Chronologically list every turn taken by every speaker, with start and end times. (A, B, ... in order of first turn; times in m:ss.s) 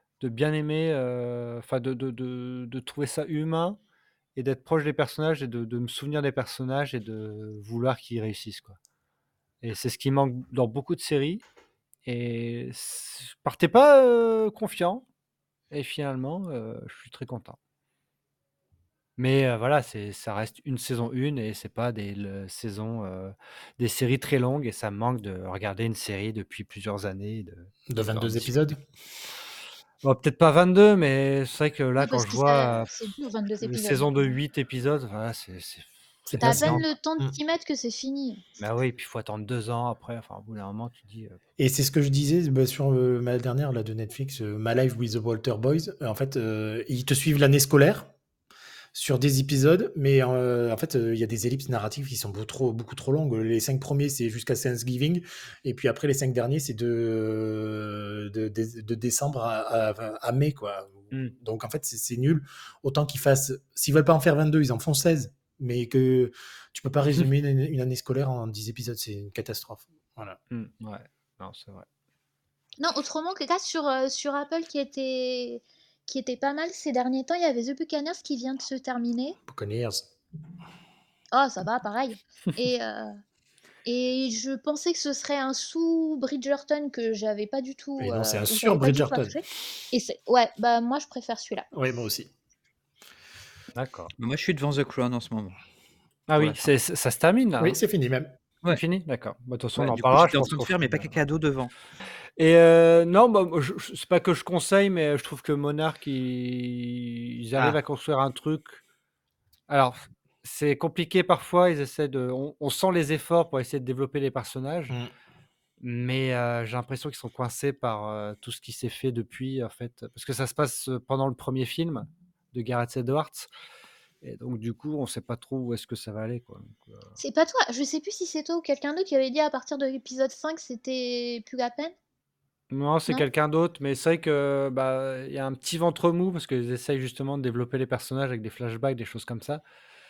0:00.2-0:03.8 A
0:04.4-0:08.8 A
0:09.6-0:11.4 A
0:12.1-0:15.0 A
0:15.7-0:17.6 A
0:19.2-0:28.6 A
0:27.9-0:28.8 B
0:30.0-0:32.9 A
0:32.0-0:34.3 C
0:33.6-0:36.9 A
0:36.3-0:37.4 B
0:36.4-0:38.4 C
0:38.6-0:41.4 A
0:41.6-0:48.1 B
0:48.9-1:10.4 B
1:10.5-1:11.9 A
1:12.8-1:19.4 C
1:19.5-1:20.1 B
1:21.3-1:23.2 C
1:23.9-1:31.7 C
1:28.0-1:29.4 B
1:31.7-1:32.3 B
1:33.8-1:34.1 A
1:34.2-1:35.6 D
1:36.3-1:37.8 A
1:36.3-1:36.7 D
1:37.6-1:38.3 B
1:38.7-1:41.2 A
1:39.8-1:41.7 D
1:42.4-1:48.8 A
1:49.7-1:55.0 A
1:55.8-2:03.5 A
2:04.2-2:07.1 A
2:07.2-2:11.9 C
2:12.7-2:19.6 A